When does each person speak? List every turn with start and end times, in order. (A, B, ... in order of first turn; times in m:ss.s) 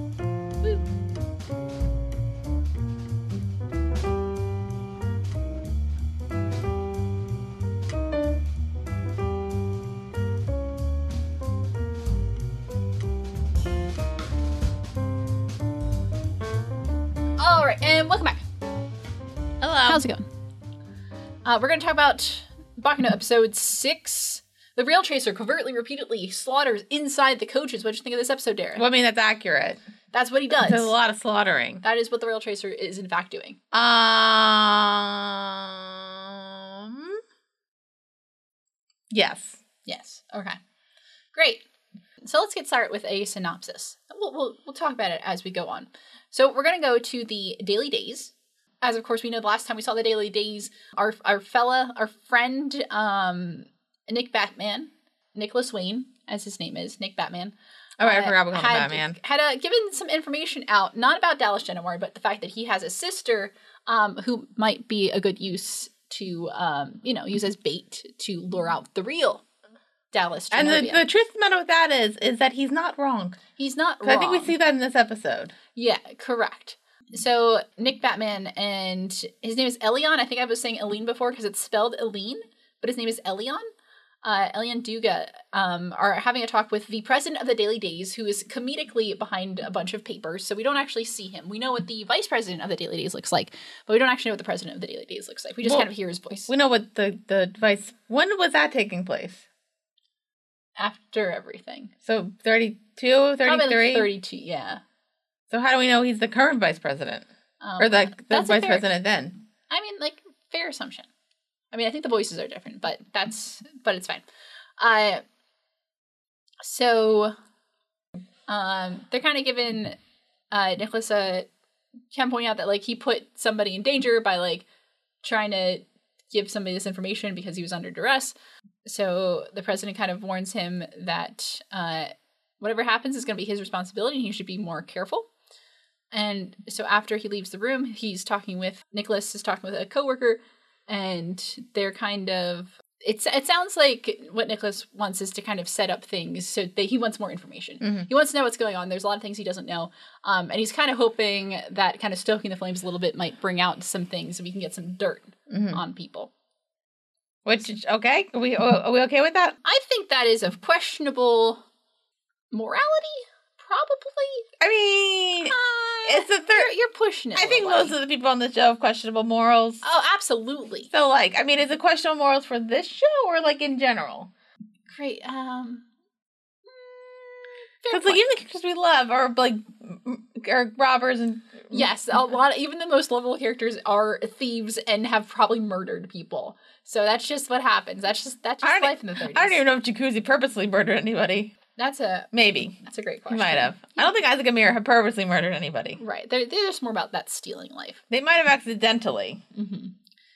0:17.4-0:18.4 A
0:19.6-0:20.0 B
0:19.9-0:20.3 A
0:21.4-0:28.8 A
0:28.8-0:29.8 B
0:30.1-0:31.0 A
0:30.6-0:31.8 B
0:31.8-0:33.6 A
0:33.7-0:37.2 B
0:39.1-0:39.6 B
0:39.8-0:40.6 A
0:41.3-0:41.6 A
0:42.2-1:09.4 A
0:58.0-0:59.2 B
1:10.1-1:11.0 A
1:10.5-1:13.4 B
1:13.6-1:14.5 A
1:14.0-1:15.6 B
1:15.8-1:23.6 A
1:24.2-1:36.5 A
1:36.5-1:39.4 B
1:40.8-1:41.9 A
1:42.0-1:44.1 B
1:43.4-1:44.8 A
1:45.5-1:47.3 B
1:47.6-1:48.9 A
1:47.8-1:49.4 B
1:49.7-1:51.1 A
1:51.7-1:54.2 A
1:54.8-1:55.2 A
1:56.6-1:57.4 A
1:58.5-2:00.0 A
2:00.5-2:01.5 A
2:02.1-2:04.7 A
2:05.2-2:15.3 A
2:16.1-2:36.3 A
2:27.8-2:28.1 B
2:35.5-2:35.8 B
2:37.4-2:39.6 B
2:39.6-2:41.6 A
2:42.5-2:44.5 A
2:44.6-2:45.6 B
2:45.4-2:48.0 A
2:46.1-2:46.7 B
2:47.4-2:49.8 B
2:49.8-2:50.9 A
2:50.9-2:54.3 B
2:54.9-2:55.9 A
2:56.6-2:58.3 A
2:57.9-3:01.9 B
3:01.7-3:09.6 A
3:08.6-3:11.6 B
3:11.8-3:14.1 A
3:12.3-3:16.0 B
3:16.0-3:18.0 A
3:18.1-3:19.4 B
3:19.5-3:20.0 A